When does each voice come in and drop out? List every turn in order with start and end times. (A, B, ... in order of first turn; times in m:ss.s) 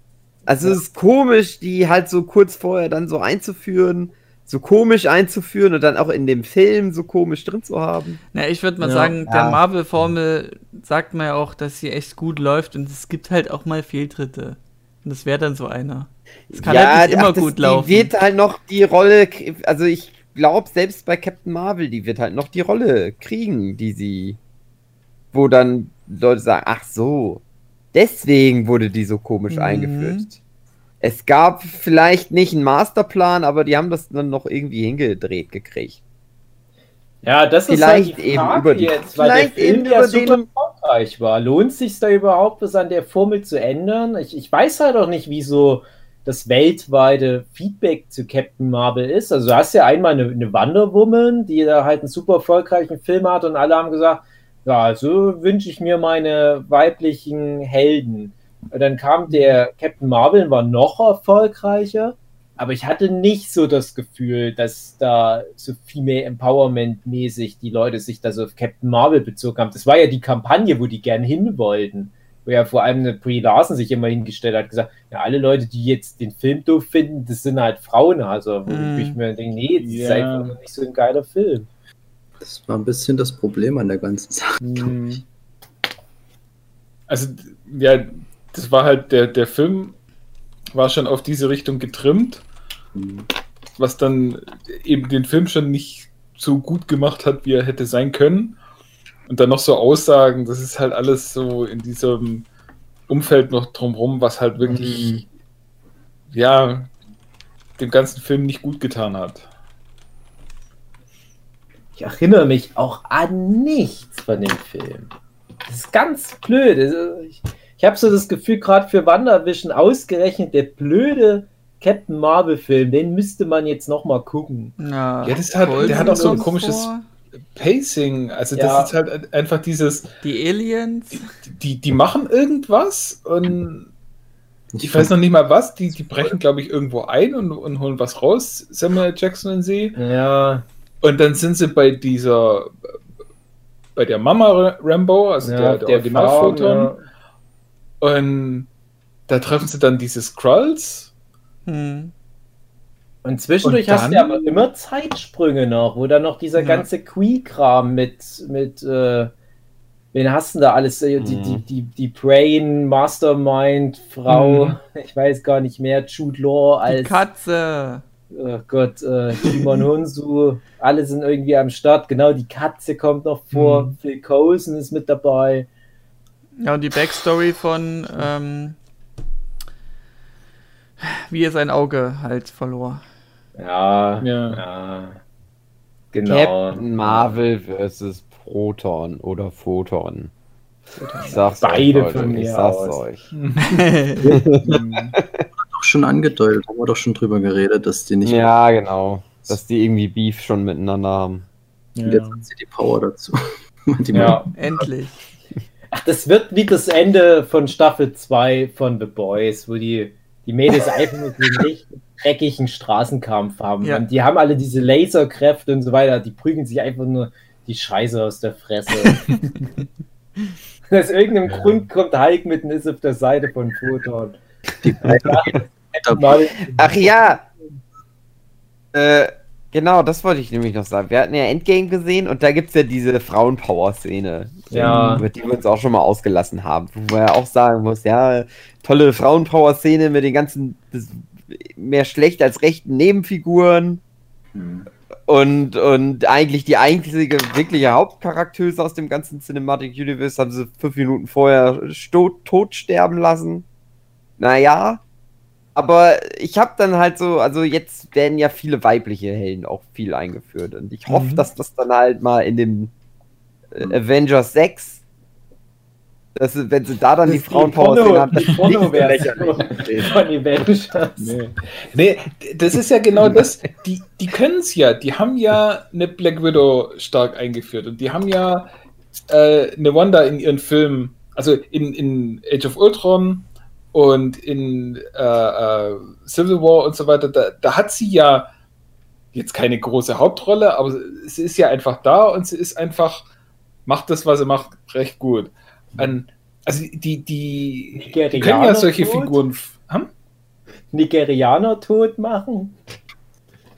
0:00.5-0:08.2 A
0:08.3-0:18.1 B
0:08.8-0:09.6 A
0:16.5-0:24.4 A
0:25.3-0:30.4 A
0:29.5-0:30.3 B
0:31.0-0:36.0 A
0:37.2-1:21.7 C
0:37.7-0:40.4 A
1:18.7-1:19.2 B
1:19.8-1:20.6 D
1:22.4-1:25.0 E
1:24.6-1:25.2 D
1:27.1-1:30.0 D
1:30.7-1:32.4 D
1:33.0-1:33.3 E
1:33.8-1:38.6 D
1:39.3-1:42.5 D
1:43.1-1:45.3 D
1:44.6-1:45.2 C
1:46.3-1:46.9 D
1:47.8-1:49.5 D
1:52.0-1:55.1 C
1:55.7-2:04.7 C
2:04.8-2:07.0 B
2:05.2-2:06.9 D
2:05.8-2:06.5 C
2:07.6-2:10.1 D
2:08.5-2:08.9 C
2:10.2-2:11.3 B
2:11.1-2:13.9 D
2:14.7-2:15.1 E
2:14.8-2:20.0 D
2:20.0-2:20.6 C
2:21.0-2:22.7 D
2:24.0-2:26.9 D
2:25.4-2:27.0 C
2:28.0-2:28.7 D
2:29.3-2:31.1 D
2:31.7-2:32.1 B
2:33.2-2:39.3 C
2:33.6-2:34.6 D
2:36.6-2:36.9 B
2:40.1-2:47.2 C
2:41.2-2:41.6 A
2:44.3-2:44.8 D
2:46.9-2:48.0 B
2:48.3-2:55.7 C
2:53.5-2:53.9 D
2:56.6-2:58.8 B
3:01.0-3:03.0 B
3:03.6-3:05.2 C
3:04.2-3:04.6 D
3:06.1-3:07.2 C
3:06.3-3:10.3 A
3:11.0-3:11.4 D
3:11.3-3:13.2 A
3:11.4-3:13.0 C
3:13.3-3:13.7 D
3:13.7-3:14.3 B
3:14.2-3:14.6 E
3:14.3-3:14.6 A
3:14.6-3:15.2 D
3:15.2-3:15.4 A
3:15.6-3:18.5 E
3:18.2-3:21.5 A
3:22.0-3:22.4 D
3:22.0-3:23.4 E
3:23.9-3:24.8 E
3:24.1-3:24.5 D
3:24.1-3:24.4 C
3:24.6-3:25.2 B
3:26.0-3:39.3 C
3:40.9-3:44.4 C
3:44.8-3:47.0 E
3:45.1-3:47.0 C
3:46.8-3:47.4 A
3:48.9-4:04.0 A
3:54.7-3:55.2 C
3:54.8-3:55.2 D
4:04.6-4:04.8 E
4:05.3-4:13.7 A
4:14.4-4:15.0 A
4:15.8-4:22.9 A
4:21.1-4:21.4 D
4:23.7-4:25.0 A
4:26.4-4:30.1 A
4:27.3-4:31.3 C
4:31.2-4:48.5 D
4:49.3-4:53.3 D
4:53.9-5:00.1 D
4:58.0-4:59.4 C
5:00.9-5:02.8 C